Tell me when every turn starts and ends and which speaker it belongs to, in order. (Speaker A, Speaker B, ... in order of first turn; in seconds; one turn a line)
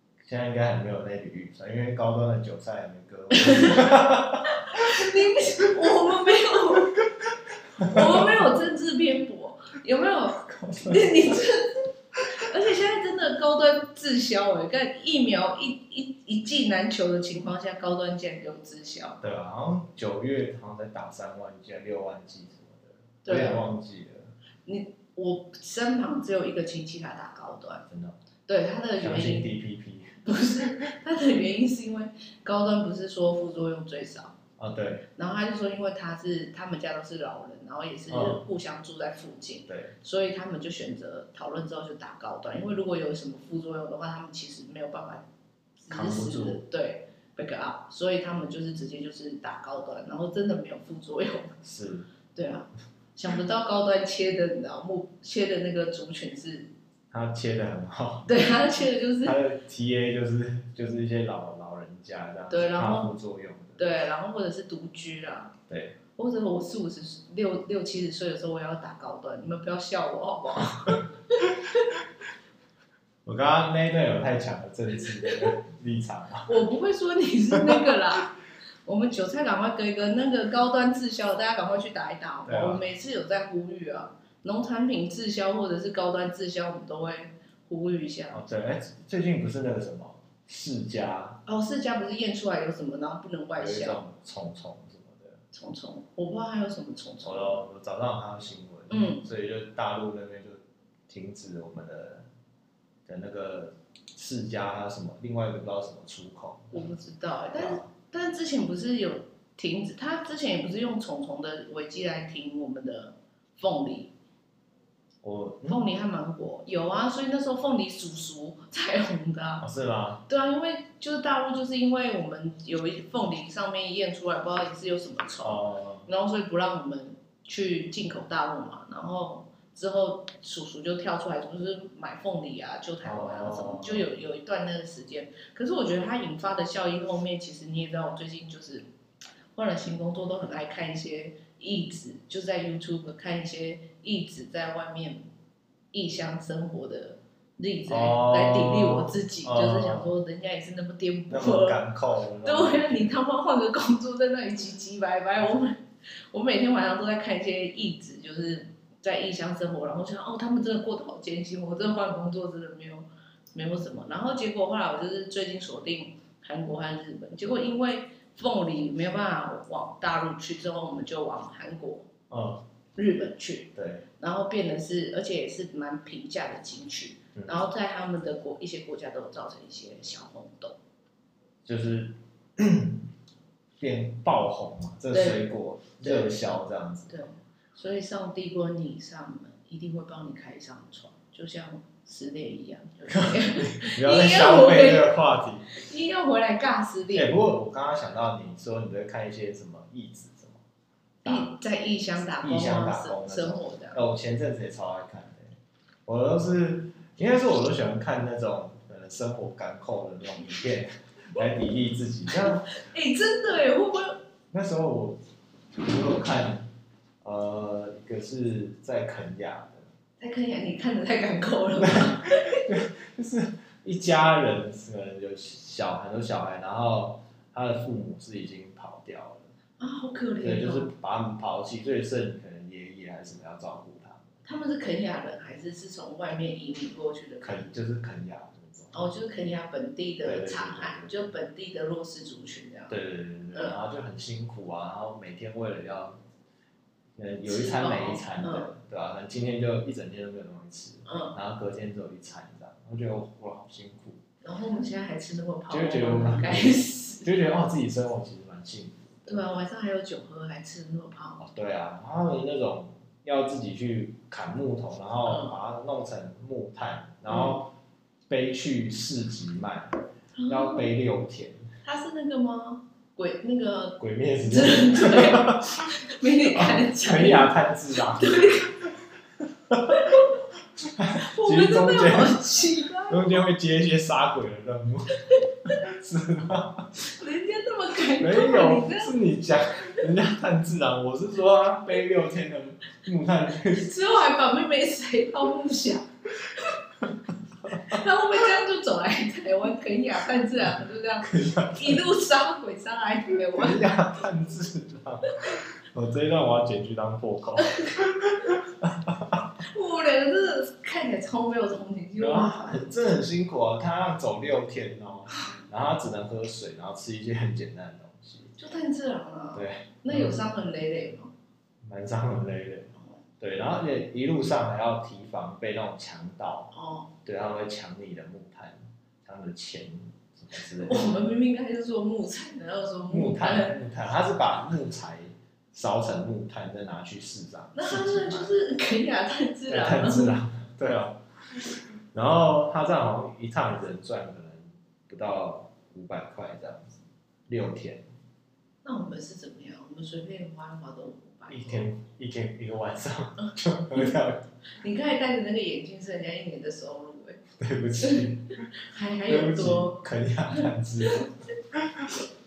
Speaker A: 0.2-5.1
Speaker B: 3.3-4.0
Speaker B: 4.5-7.0
Speaker A: 7.0-8.5
Speaker B: 7.8-11.7
Speaker A: 10.4-11.4
Speaker B: 12.4-19.2
Speaker A: 19.2-24.3
Speaker B: 23.2-23.6
Speaker B: 24.6-27.9
Speaker A: 27.9-28.2
Speaker B: 28.5-29.5
Speaker A: 29.0-30.9
Speaker B: 30.2-34.3
Speaker A: 34.6-35.0
Speaker B: 35.1-45.2
Speaker A: 38.1-38.4
Speaker A: 39.7-39.9
Speaker B: 45.8-51.5
Speaker A: 45.9-46.6
Speaker A: 51.6-52.1
Speaker B: 52.3-56.7
Speaker A: 57.1-58.3
Speaker B: 58.2-59.4
Speaker A: 59.2-63.9
Speaker B: 62.5-63.1
Speaker B: 63.8-65.5
Speaker A: 65.7-66.0
Speaker B: 66.1-71.9
Speaker A: 70.8-71.5
Speaker A: 73.2-76.5
Speaker B: 76.4-88.4
Speaker A: 77.5-78.0
Speaker A: 82.5-82.8
Speaker A: 88.3-91.4
Speaker B: 91.5-94.0
Speaker A: 93.6-95.4
Speaker B: 95.5-97.6
Speaker A: 97.2-102.3
Speaker B: 98.9-99.2
Speaker A: 103.0-106.9
Speaker B: 106.7-114.1
Speaker A: 107.6-107.9
Speaker A: 115.2-115.8
Speaker B: 115.7-119.7
Speaker A: 119.6-120.2
Speaker B: 120.3-138.8
Speaker A: 125.4-126.1
Speaker A: 133.0-134.1
Speaker B: 139.5-145.2
Speaker B: 145.9-151.8
Speaker A: 147.9-150.1
Speaker A: 151.3-153.1
Speaker B: 152.4-172.1
Speaker A: 172.3-172.6
Speaker B: 172.9-180.8
Speaker A: 173.7-174.0
Speaker A: 177.3-177.6
Speaker A: 181.6-183.1
Speaker A: 183.8-187.2
Speaker B: 185.1-185.4
Speaker B: 186.0-186.3
Speaker B: 187.1-195.1
Speaker A: 193.1-195.8
Speaker B: 195.7-197.3
Speaker A: 197.1-200.6
Speaker B: 201.2-204.0
Speaker A: 201.2-201.5
Speaker A: 202.4-205.5
Speaker A: 206.1-212.7
Speaker B: 212.3-214.2
Speaker A: 214.5-215.2
Speaker A: 215.8-216.7
Speaker A: 217.2-219.9
Speaker B: 220.2-222.7
Speaker A: 221.8-229.5
Speaker B: 229.8-230.9
Speaker A: 230.4-234.3
Speaker B: 234.4-237.7
Speaker A: 237.4-239.1
Speaker B: 238.9-243.0
Speaker A: 240.2-241.2
Speaker A: 242.9-246.2
Speaker B: 243.5-243.8
Speaker A: 247.2-254.2
Speaker B: 247.4-248.7
Speaker B: 251.1-251.3
Speaker B: 254.4-257.3
Speaker A: 255.7-259.4
Speaker B: 259.3-261.4
Speaker A: 261.4-267.7
Speaker B: 265.2-265.6
Speaker B: 267.3-267.6
Speaker A: 268.3-271.6
Speaker B: 270.4-270.9
Speaker B: 271.8-278.7
Speaker A: 274.0-275.9
Speaker A: 276.5-285.1
Speaker B: 279.9-280.3
Speaker B: 281.1-283.4
Speaker B: 285.3-285.8
Speaker A: 285.7-286.9
Speaker B: 287.0-289.1
Speaker A: 288.2-293.9
Speaker B: 293.7-296.8
Speaker A: 297.0-298.0
Speaker B: 297.7-303.9
Speaker A: 301.2-302.0
Speaker A: 303.5-309.5
Speaker B: 307.7-307.9
Speaker B: 309.6-312.9
Speaker A: 312.2-318.5
Speaker B: 318.6-321.3
Speaker A: 319.5-320.4
Speaker A: 321.8-326.7
Speaker B: 326.7-327.1
Speaker A: 327.2-331.1
Speaker B: 330.8-333.8
Speaker A: 333.1-338.5
Speaker B: 337.7-340.4
Speaker A: 339.7-348.1
Speaker B: 348.8-351.9
Speaker A: 351.5-354.4
Speaker B: 353.4-354.1
Speaker B: 354.8-357.4
Speaker A: 357.6-358.5
Speaker B: 358.0-360.0
Speaker A: 359.3-362.1
Speaker B: 360.5-361.3